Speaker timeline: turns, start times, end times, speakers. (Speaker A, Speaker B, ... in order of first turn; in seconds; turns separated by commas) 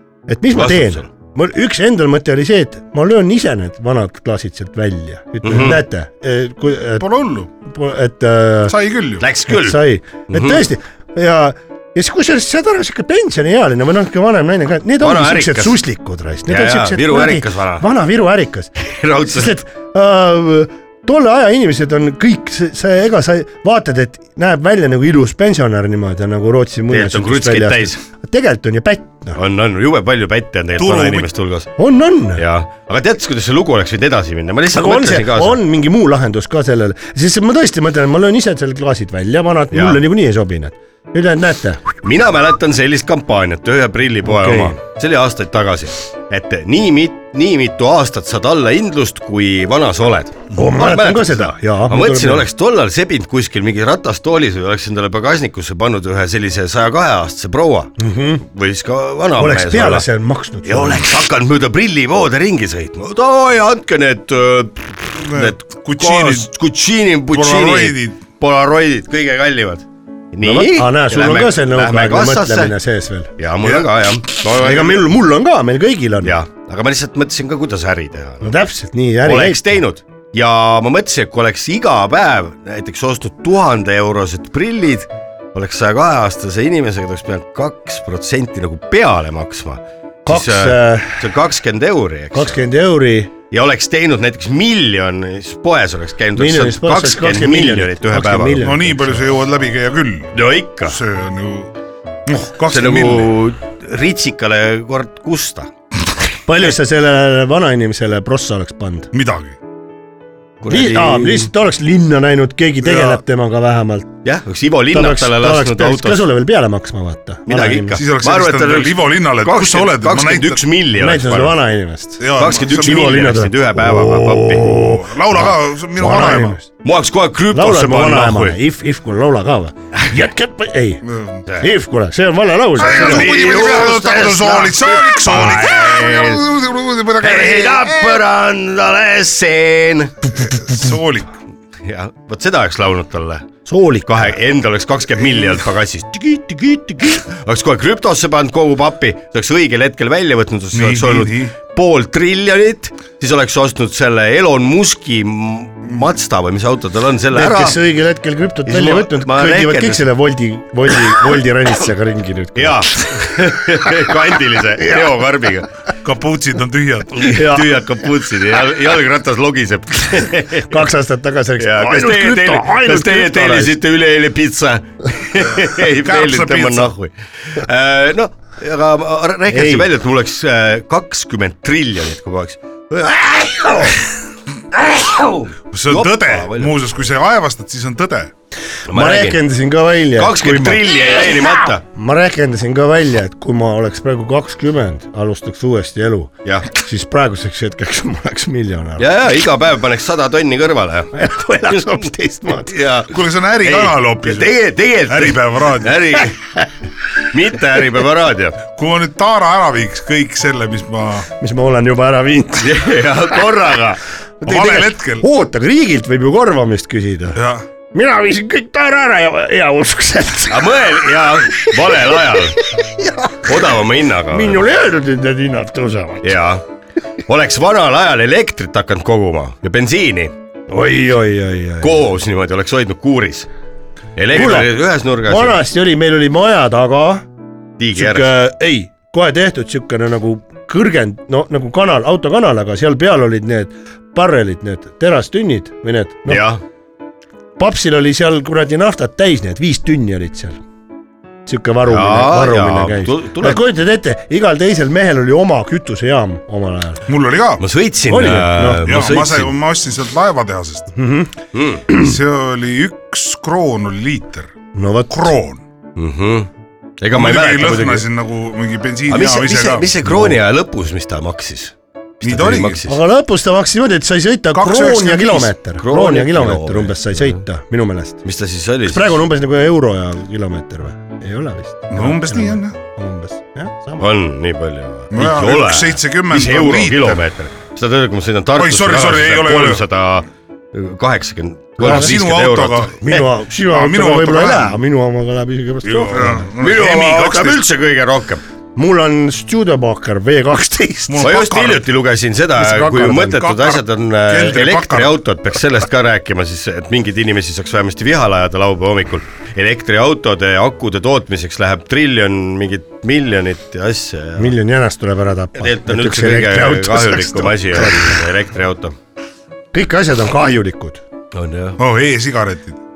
Speaker A: 0.3-7.0, Speaker B: 0.5-1.1, Speaker B: 5.4-5.8, Speaker C: 7.0-7.5, Speaker A: 7.6-8.7, Speaker C: 8.7-9.2, Speaker B: 9.2-10.6, Speaker A: 9.5-18.7, Speaker B: 15.0-15.8, Speaker B: 16.5-17.9, Speaker B: 18.8-19.6, Speaker A: 19.2-29.4, Speaker B: 26.9-28.0, Speaker B: 29.3-31.7, Speaker C: 30.8-31.3, Speaker A: 31.8-32.4, Speaker B: 32.3-35.6, Speaker A: 34.7-41.9, Speaker B: 39.7-40.0, Speaker B: 42.0-60.0, Speaker A: 44.2-44.8, Speaker A: 50.5-52.5, Speaker A: 58.0-58.4, Speaker A: 59.4-61.1, Speaker B: 60.6-72.8, Speaker C: 65.2-66.5, Speaker C: 67.3-68.2, Speaker A: 70.4-73.3, Speaker B: 73.4-75.1, Speaker A: 74.5-76.3, Speaker B: 76.2-78.6, Speaker A: 78.4-79.8, Speaker B: 79.2-92.6, Speaker A: 90.2-91.3, Speaker A: 92.3-93.3, Speaker B: 93.5-98.7, Speaker A: 96.3-99.2, Speaker C: 98.6-100.3, Speaker B: 100.3-101.0, Speaker C: 100.9-101.7, Speaker C: 102.2-103.3, Speaker B: 102.7-105.7, Speaker A: 106.5-109.1, Speaker C: 109.1-109.6, Speaker B: 110.6-111.5, Speaker A: 110.7-114.1, Speaker C: 112.8-113.2, Speaker B: 114.2-116.2, Speaker A: 114.9-118.0, Speaker B: 117.5-121.6, Speaker C: 117.9-120.6, Speaker A: 121.0-122.2, Speaker C: 122.2-123.4, Speaker B: 122.3-124.8, Speaker A: 122.8-126.6, Speaker C: 124.8-126.6, Speaker B: 126.8-128.6, Speaker A: 127.5-131.0, Speaker C: 131.1-131.4, Speaker B: 131.4-131.7, Speaker A: 131.6-133.4, Speaker B: 132.8-136.5, Speaker C: 132.8-138.2, Speaker B: 137.2-140.5, Speaker C: 140.3-141.3, Speaker B: 141.8-143.5, Speaker A: 143.7-144.2, Speaker B: 144.1-157.8, Speaker C: 150.7-151.5, Speaker A: 157.3-163.2, Speaker B: 158.7-160.1, Speaker B: 162.5-165.7, Speaker C: 166.0-167.6, Speaker B: 167.2-170.9, Speaker A: 167.3-167.7, Speaker A: 170.6-173.7, Speaker B: 171.6-184.1, Speaker C: 175.8-176.9, Speaker A: 179.5-179.9, Speaker B: 184.7-186.7, Speaker C: 185.7-188.3, Speaker B: 188.9-189.4, Speaker A: 188.9-190.9, Speaker B: 190.1-191.8, Speaker A: 191.9-199.1, Speaker B: 199.0-201.1, Speaker A: 201.1-202.7, Speaker B: 202.6-206.6, Speaker C: 203.1-204.5, Speaker C: 205.1-206.1, Speaker B: 207.3-208.6, Speaker C: 208.7-211.3, Speaker A: 211.4-212.9, Speaker B: 212.6-214.0, Speaker A: 214.4-217.4, Speaker C: 214.4-215.2, Speaker C: 217.3-217.6, Speaker A: 217.9-221.7, Speaker B: 220.5-222.6, Speaker A: 222.3-223.5, Speaker B: 223.4-224.6, Speaker A: 224.3-226.4, Speaker B: 226.2-226.6, Speaker B: 227.2-230.3, Speaker A: 230.7-232.0, Speaker B: 231.8-233.5, Speaker B: 234.2-235.6, Speaker A: 234.3-234.7, Speaker A: 235.2-237.2, Speaker B: 237.8-238.3, Speaker A: 237.9-246.4, Speaker B: 246.3-246.6, Speaker A: 247.6-250.6, Speaker A: 251.4-257.0, Speaker B: 251.9-253.6, Speaker C: 257.1-257.6, Speaker B: 257.6-259.5, Speaker A: 258.1-258.9, Speaker C: 258.8-260.9, Speaker A: 260.9-261.3, Speaker B: 261.5-261.8, Speaker C: 261.9-264.5, Speaker A: 264.7-265.3, Speaker C: 265.1-265.6, Speaker B: 265.9-266.5, Speaker B: 267.0-268.1, Speaker C: 267.1-270.2, Speaker B: 269.1-273.0, Speaker C: 272.2-272.8, Speaker A: 272.9-278.2, Speaker C: 274.5-275.5, Speaker B: 275.8-277.4, Speaker B: 278.2-279.2, Speaker A: 278.9-284.1, Speaker C: 281.9-282.7, Speaker B: 284.0-293.2, Speaker C: 285.1-287.2, Speaker C: 288.6-289.9, Speaker C: 291.8-293.0, Speaker A: 291.8-292.1, Speaker A: 293.0-296.5, Speaker C: 293.6-294.8, Speaker C: 295.8-297.6, Speaker B: 296.5-298.4, Speaker A: 298.8-301.4, Speaker C: 301.1-301.9, Speaker B: 301.2-314.5, Speaker A: 302.6-303.5, Speaker C: 303.4-305.2, Speaker A: 314.4-318.2, Speaker B: 315.5-318.9, Speaker A: 319.7-321.0, Speaker B: 321.3-321.8, Speaker C: 321.8-322.8